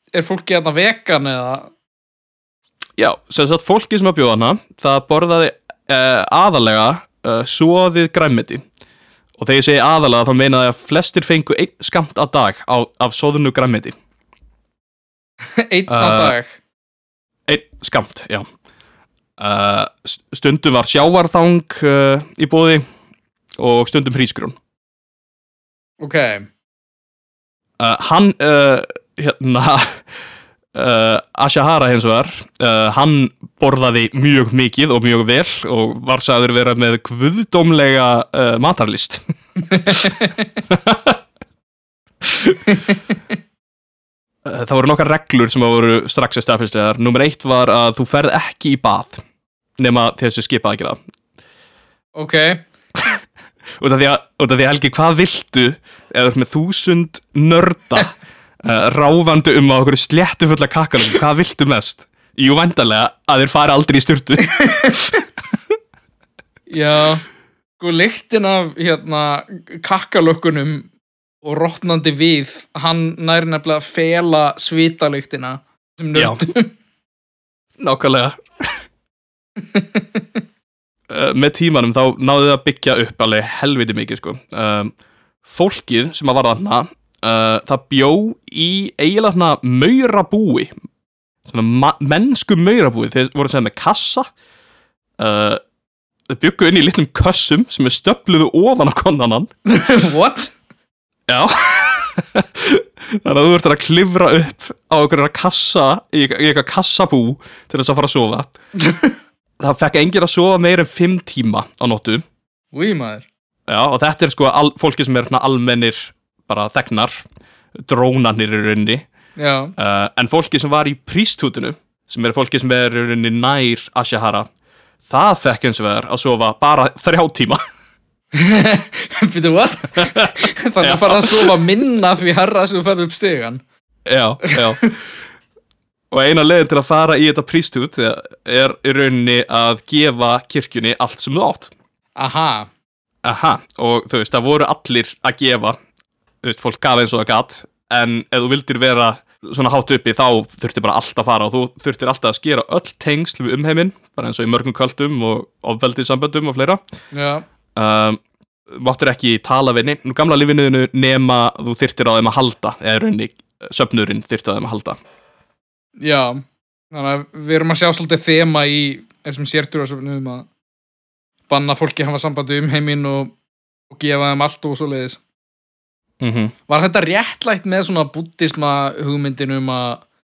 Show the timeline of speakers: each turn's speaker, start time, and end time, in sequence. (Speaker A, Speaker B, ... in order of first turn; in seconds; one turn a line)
Speaker A: 0.1-1.7
Speaker B: 3.0-8.6
Speaker B: 9.4-13.9
Speaker A: 15.6-16.6
Speaker B: 15.9-16.4
Speaker B: 17.5-18.4
Speaker B: 19.4-22.8
Speaker B: 23.6-24.6
Speaker A: 26.0-26.5
Speaker B: 27.8-30.0
Speaker B: 30.7-39.2
Speaker A: 39.7-40.4
Speaker B: 39.8-41.2
Speaker B: 42.2-42.6
Speaker A: 42.7-43.1
Speaker B: 44.5-49.2
Speaker B: 49.8-51.0
Speaker A: 52.1-52.6
Speaker B: 53.8-65.2
Speaker A: 64.6-64.9
Speaker A: 66.7-67.2
Speaker A: 67.8-70.9
Speaker A: 71.4-76.7
Speaker B: 76.2-76.4
Speaker B: 77.8-78.4
Speaker A: 79.6-80.4
Speaker B: 81.1-84.9
Speaker B: 85.5-90.7
Speaker B: 91.5-94.3
Speaker B: 95.2-95.6
Speaker B: 96.3-99.5
Speaker A: 99.7-100.5
Speaker B: 101.3-108.6
Speaker A: 108.8-109.2
Speaker B: 109.6-112.2
Speaker A: 112.7-113.2
Speaker B: 113.7-117.2
Speaker B: 117.9-119.1
Speaker A: 119.4-119.7
Speaker B: 119.8-124.5
Speaker B: 125.1-127.6
Speaker A: 128.3-133.6
Speaker B: 130.0-131.6
Speaker B: 134.1-134.8
Speaker A: 134.4-134.9
Speaker B: 136.1-141.7
Speaker A: 142.2-142.7
Speaker B: 143.2-145.8
Speaker B: 146.4-156.8
Speaker A: 157.1-157.4
Speaker B: 157.8-165.0
Speaker A: 166.0-170.5
Speaker A: 171.5-173.3
Speaker A: 173.9-175.2
Speaker B: 176.2-176.5
Speaker A: 176.7-180.0